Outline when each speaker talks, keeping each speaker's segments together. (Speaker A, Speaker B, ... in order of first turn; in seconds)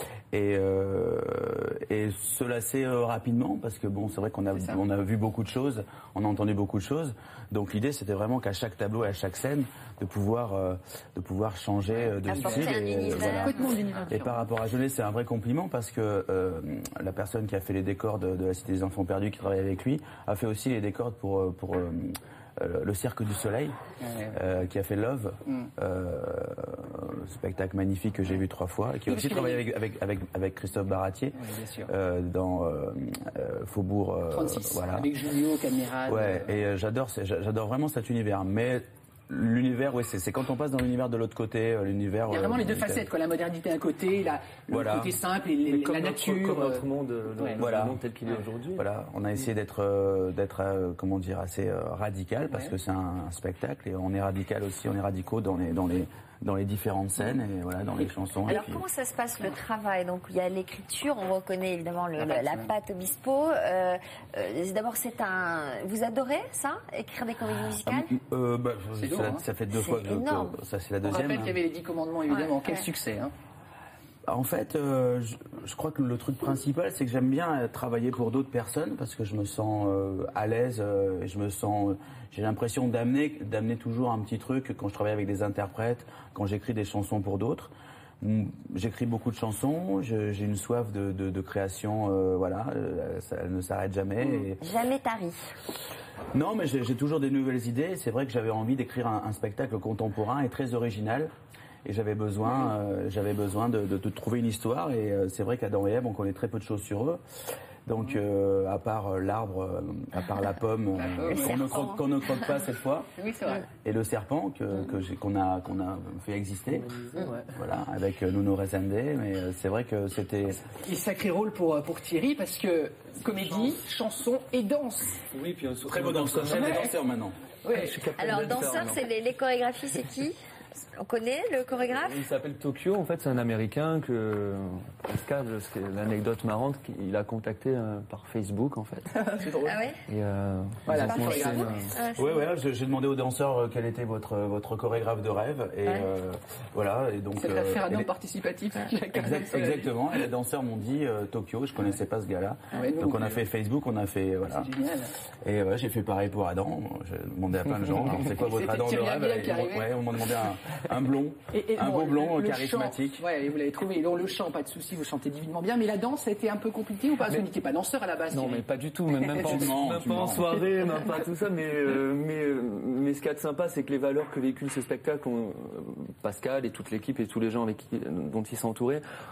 Speaker A: 0.3-23.8, 24.3-35.1, 36.1-43.0, 44.7-45.2, 47.6-48.0, 48.7-58.9, 67.9-71.6, 74.3-94.6, 96.3-101.3, 101.8-107.2, 107.9-113.1, 113.8-117.0, 117.5-120.6, 125.9-127.4, 142.2-148.1, 149.1-154.7, 155.4-163.3, 169.4-170.5
Speaker B: 4.5-4.8, 13.2-14.4, 24.0-24.4, 29.1-29.6, 31.4-31.9, 34.3-36.6, 42.3-46.8, 62.2-62.7, 69.0-69.5, 71.1-73.3, 111.0-111.4, 113.2-113.7, 120.7-125.2, 127.7-127.9, 139.3-139.8, 140.9-141.7, 147.4-149.9, 152.8-153.4, 154.5-155.1, 158.5-159.9, 161.5-168.6
Speaker C: 12.3-13.8, 58.5-68.1, 69.7-70.5, 94.6-95.4, 111.3-112.0, 128.2-130.4, 131.0-132.2, 139.6-140.0, 141.0-142.5
Speaker D: 45.7-48.8, 117.1-117.4, 125.3-126.8, 127.7-129.0, 132.1-139.2, 140.1-141.9, 168.3-179.0